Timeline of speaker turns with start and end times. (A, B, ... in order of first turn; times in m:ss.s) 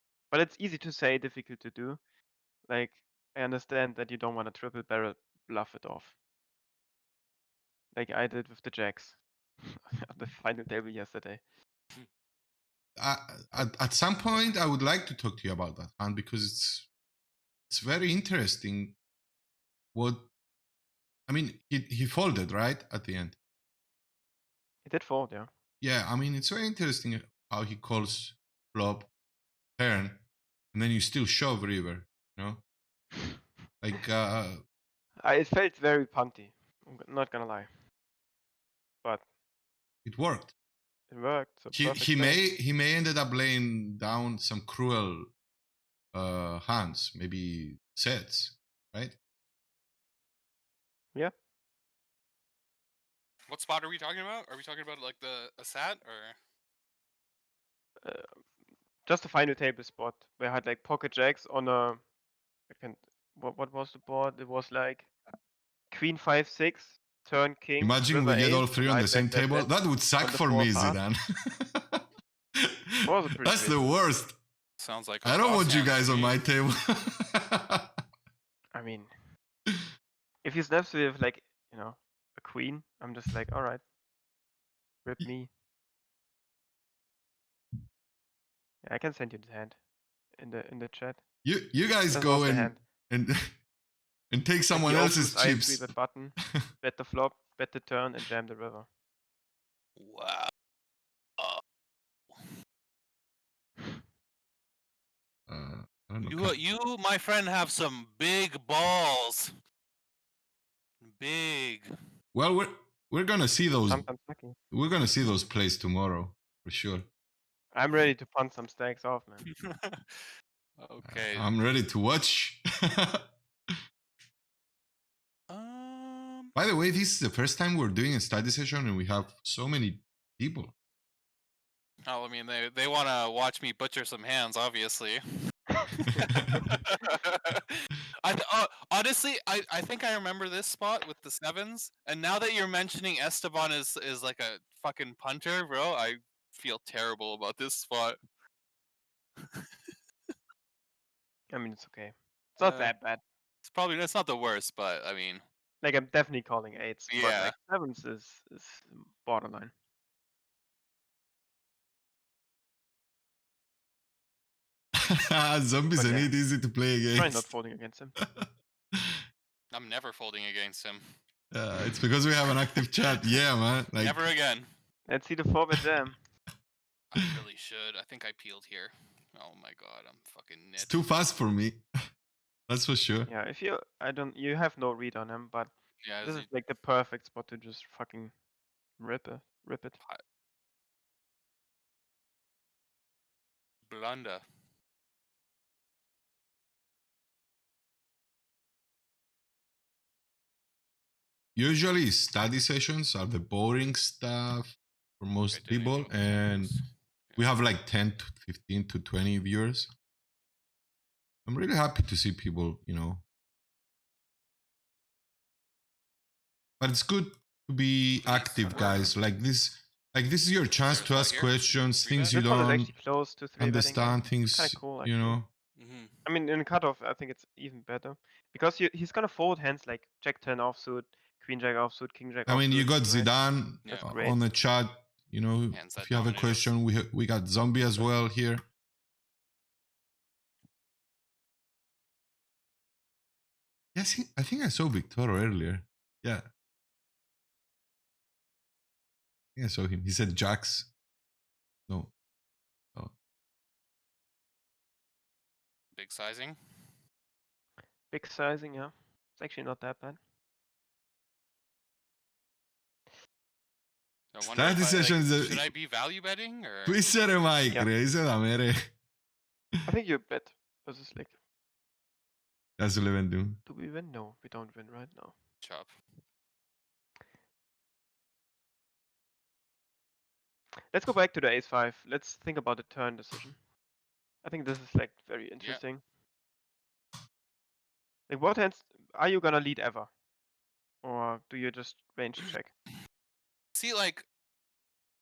0:00.3-0:02.0 A
0:02.7-0:06.1 A
0:07.9-0:11.4 A
0:13.0-0:16.9 B
0:17.7-0:19.0 B
0:19.9-0:20.3 B
0:21.3-0:23.4 B
0:24.8-0:25.5 A
0:25.8-0:29.1 B
0:29.8-0:32.6 B
0:33.8-0:34.6 B
0:35.2-0:37.7 A
0:40.0-0:40.5 B
0:41.1-0:42.4 A
0:41.7-0:45.3 B
0:46.1-0:49.2 B
0:53.5-0:56.4 C
0:58.0-0:58.5 A
0:59.0-1:02.0 A
1:02.7-1:05.1 A
1:05.9-1:11.0 A
1:07.8-1:12.0 B
1:13.0-1:13.8 A
1:13.4-1:14.4 B
1:14.8-1:16.4 C
1:15.2-1:17.9 B
1:18.7-1:19.1 A
1:20.4-1:23.8 A
1:25.0-1:25.5 A
1:28.8-1:29.8 A
1:30.4-1:31.2 A
1:31.4-1:33.5 B
1:32.1-1:32.8 A
1:34.3-1:35.9 B
1:34.7-1:38.9 A
1:40.0-1:40.5 C
1:45.5-1:46.6 B
1:46.2-1:49.5 C
1:51.0-1:51.9 C
1:52.3-1:54.1 B
1:53.9-1:54.6 A
1:54.7-1:57.1 B
1:57.7-1:59.4 A
1:59.7-2:00.2 C
2:00.8-2:01.5 C
2:01.0-2:03.2 B
2:05.5-2:06.6 C
2:06.6-2:10.7 B
2:12.1-2:15.2 C
2:15.9-2:16.2 A
2:16.1-2:16.6 B
2:16.2-2:28.2 C
2:29.4-2:30.0 C
2:31.5-2:33.2 A
2:32.6-2:32.9 C
2:33.6-2:35.4 C
2:35.8-2:39.7 A
2:37.1-2:37.5 C
2:45.0-2:47.4 B
2:46.0-2:46.3 A
2:47.1-2:48.2 A
2:49.7-2:51.0 C
2:51.5-2:54.2 B
2:54.0-2:54.7 C
2:55.1-2:56.2 A
2:57.1-3:01.0 C
3:00.8-3:01.8 B
3:02.7-3:03.3 B
3:03.3-3:08.3 A
3:06.0-3:06.5 C
3:09.0-3:10.0 A
3:13.9-3:14.4 C
3:21.6-3:26.7 B
3:25.5-3:27.5 C
3:27.4-3:29.9 B
3:31.5-3:33.2 B
3:36.8-3:42.9 B
3:38.2-3:39.1 C
3:40.8-3:42.4 C
3:42.3-3:45.4 A
3:43.6-3:45.5 B
3:45.8-3:46.2 C
3:46.3-3:53.3 A
3:52.5-3:58.6 B
3:54.0-3:54.4 A
3:55.7-3:56.7 C
4:04.0-4:06.4 B
4:09.6-4:10.9 B
4:15.9-4:16.6 C
4:18.1-4:20.2 A
4:24.3-4:27.0 C
4:24.4-4:25.7 B
4:26.9-4:28.8 B
4:29.9-4:31.4 A
4:32.8-4:33.6 B
4:33.6-4:35.4 A
4:35.6-4:35.9 C
4:40.9-4:43.6 A
4:44.4-4:46.0 A
4:48.3-4:50.1 A
4:51.0-4:52.7 A
4:53.8-4:54.3 C